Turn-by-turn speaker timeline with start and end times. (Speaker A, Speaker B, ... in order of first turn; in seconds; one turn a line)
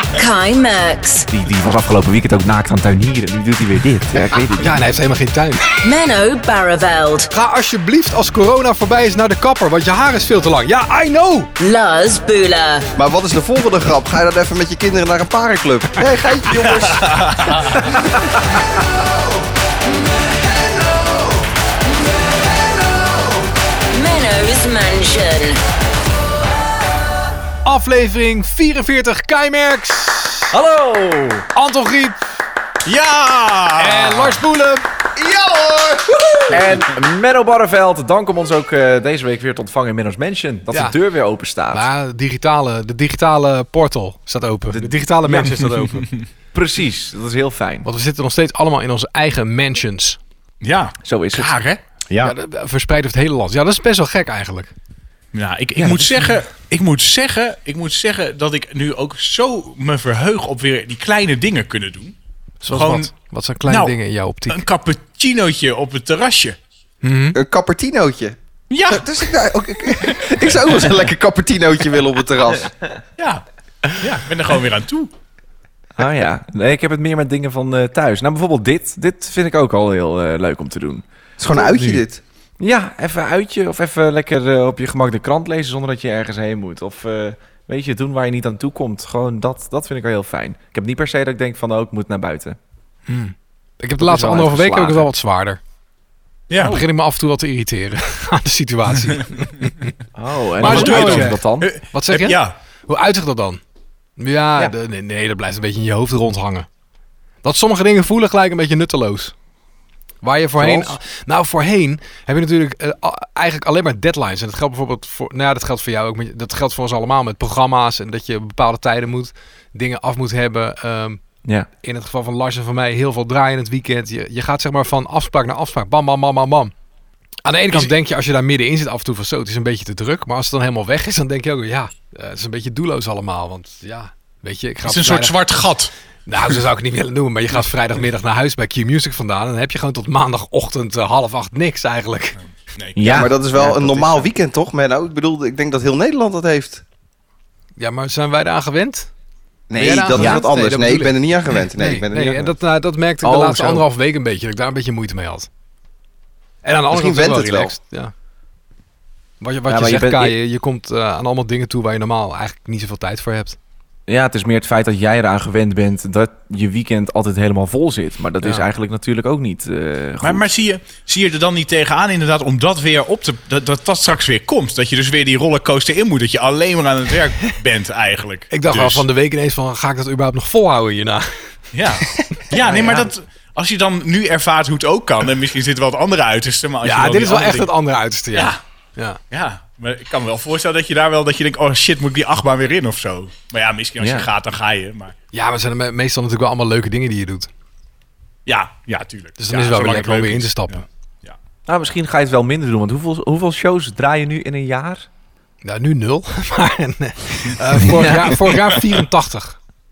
Speaker A: 0.1-1.3
Speaker B: 1.3-4.9
Speaker C: 4.6-5.7
Speaker A: 5.8-7.3
Speaker C: 7.3-11.5
Speaker A: 11.6-12.8
Speaker D: 13.0-18.0
Speaker E: 16.8-17.8
Speaker A: 23.9-25.6
Speaker C: 27.6-30.5
Speaker B: 30.5-31.5
Speaker C: 31.6-32.3
Speaker E: 32.9-34.4
Speaker C: 33.8-34.8
Speaker D: 35.2-36.8
Speaker B: 36.5-41.9
Speaker C: 41.7-46.1
Speaker B: 44.7-45.9
Speaker B: 46.5-47.9
Speaker C: 47.9-50.2
Speaker E: 50.6-51.8
Speaker B: 51.0-51.5
Speaker C: 52.2-54.7
Speaker E: 55.3-62.1
Speaker B: 55.8-56.3
Speaker C: 62.6-64.6
Speaker E: 62.7-63.1
Speaker E: 63.7-63.9
Speaker E: 64.5-66.6
Speaker C: 67.0-67.4
Speaker D: 67.3-68.4
Speaker E: 68.7-69.2
Speaker D: 68.9-72.8
Speaker E: 73.2-75.1
Speaker B: 76.0-82.0
Speaker D: 81.4-82.2
Speaker B: 82.6-92.6
Speaker C: 93.1-95.6
Speaker B: 94.0-95.1
Speaker E: 96.5-96.8
Speaker C: 96.6-99.9
Speaker B: 100.2-101.7
Speaker C: 100.6-103.6
Speaker E: 100.6-102.5
Speaker C: 104.2-106.7
Speaker C: 107.4-109.3
Speaker C: 110.2-121.2
Speaker B: 110.6-111.0
Speaker C: 121.8-126.7
Speaker C: 127.5-135.3
Speaker E: 134.8-135.9
Speaker C: 136.3-142.4
Speaker E: 142.8-143.3
Speaker B: 143.0-144.3
Speaker D: 143.0-146.8
Speaker C: 147.8-149.1
Speaker D: 149.7-152.5
Speaker C: 149.8-155.5
Speaker B: 150.1-150.4
Speaker B: 153.2-153.8
Speaker C: 156.6-158.1
Speaker D: 156.9-157.8
Speaker C: 159.4-163.6
Speaker B: 159.7-160.4
Speaker B: 164.1-170.4
Speaker E: 170.2-179.1
Speaker C: 178.5-181.3
Speaker E: 181.7-187.7
Speaker B: 182.6-183.1
Speaker C: 186.8-189.2
Speaker E: 189.3-195.1
Speaker B: 194.0-194.3
Speaker C: 195.3-197.5
Speaker E: 198.5-201.4
Speaker C: 199.4-200.8
Speaker B: 201.7-205.1
Speaker C: 205.6-209.6
Speaker B: 207.8-208.5